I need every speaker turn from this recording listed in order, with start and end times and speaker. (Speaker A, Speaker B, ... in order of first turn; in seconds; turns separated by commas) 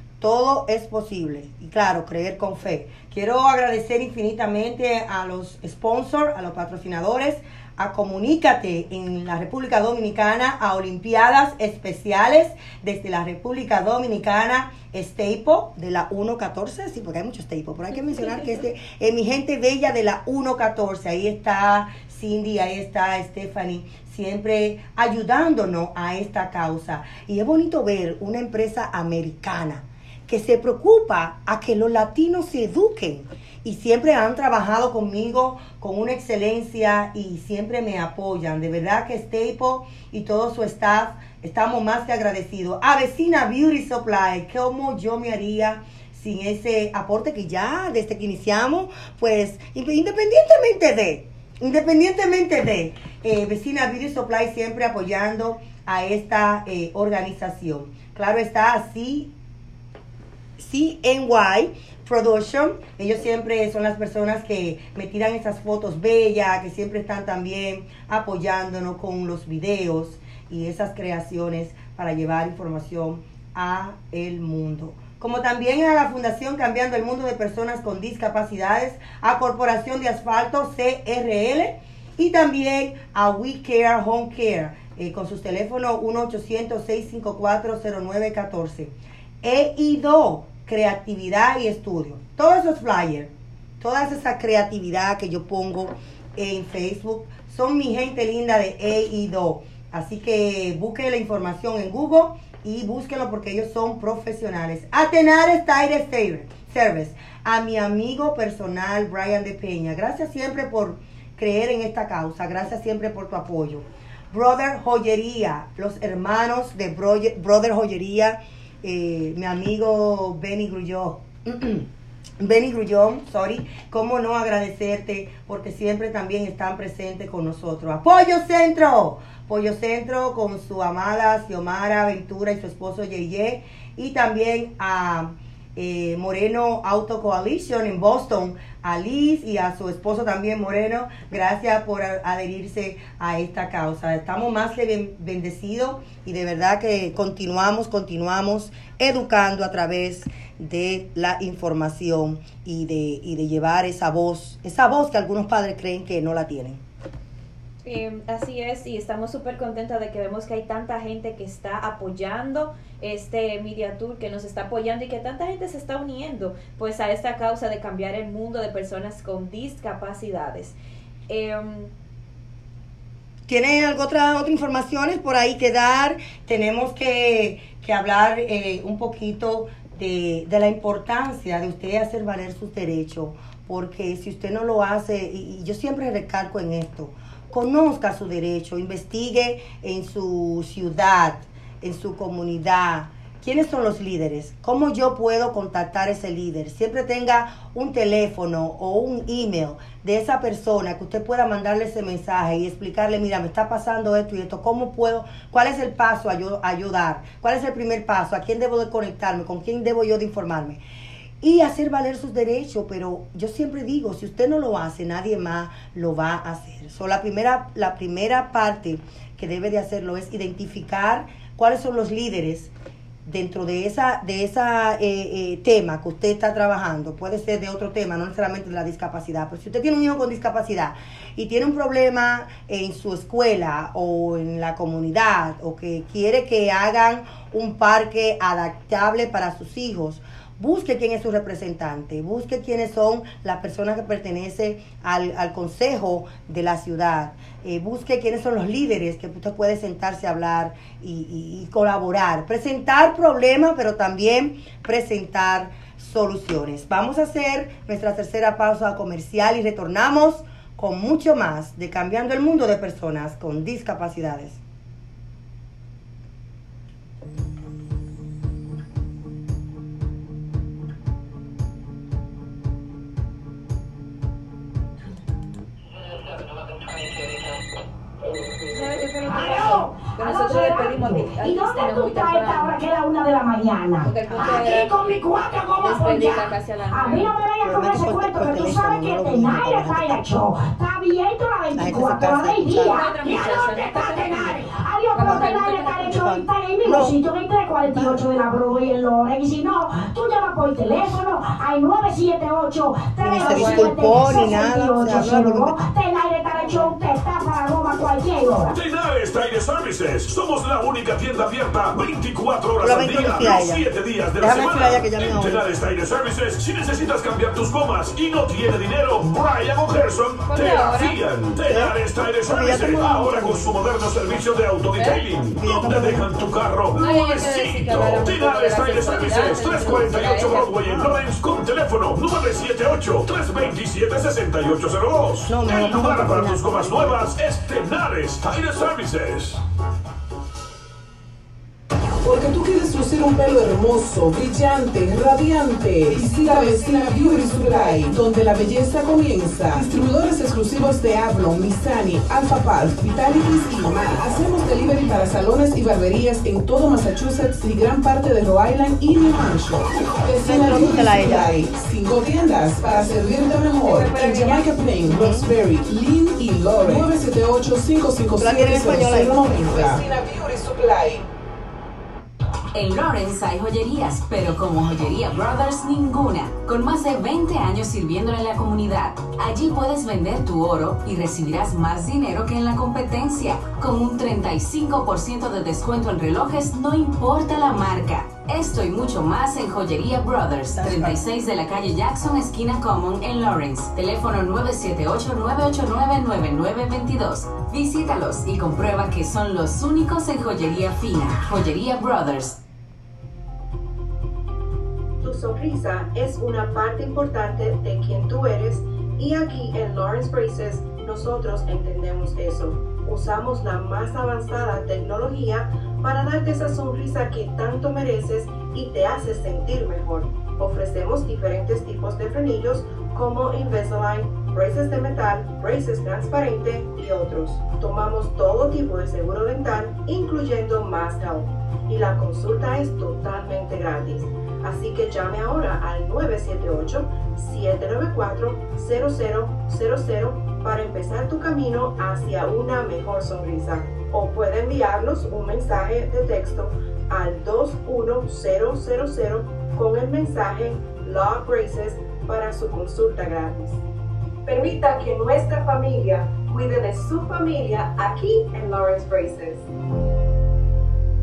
Speaker A: 0.2-59.3, Speaker A: 60.6-121.9, Speaker A: 122.4-156.8, Speaker B: 157.8-170.8, Speaker B: 171.3-171.9, Speaker A: 173.5-210.8, Speaker A: 211.4-222.7, Speaker A: 223.2-264.6, Speaker B: 278.7-282.8, Speaker C: 279.3-308.8, Speaker B: 284.0-285.0, Speaker B: 285.8-287.3, Speaker A: 287.6-290.2, Speaker A: 291.8-293.0, Speaker B: 292.8-296.3, Speaker A: 296.1-297.2, Speaker A: 297.9-298.2, Speaker A: 303.2-305.8, Speaker B: 303.4-304.6, Speaker B: 306.5-306.9, Speaker D: 308.8-339.6, Speaker A: 312.8-315.6, Speaker B: 320.4-321.2, Speaker A: 321.6-321.9, Speaker A: 322.5-323.8, Speaker B: 324.9-325.2, Speaker A: 325.6-326.4, Speaker B: 327.0-330.8, Speaker A: 330.6-331.2, Speaker A: 335.4-337.3, Speaker E: 342.2-371.2, Speaker A: 360.4-361.7, Speaker B: 363.8-364.8, Speaker A: 365.0-365.5, Speaker A: 368.4-370.0, Speaker F: 372.7-402.6, Speaker A: 390.7-391.2, Speaker G: 405.2-453.8, Speaker G: 454.4-459.6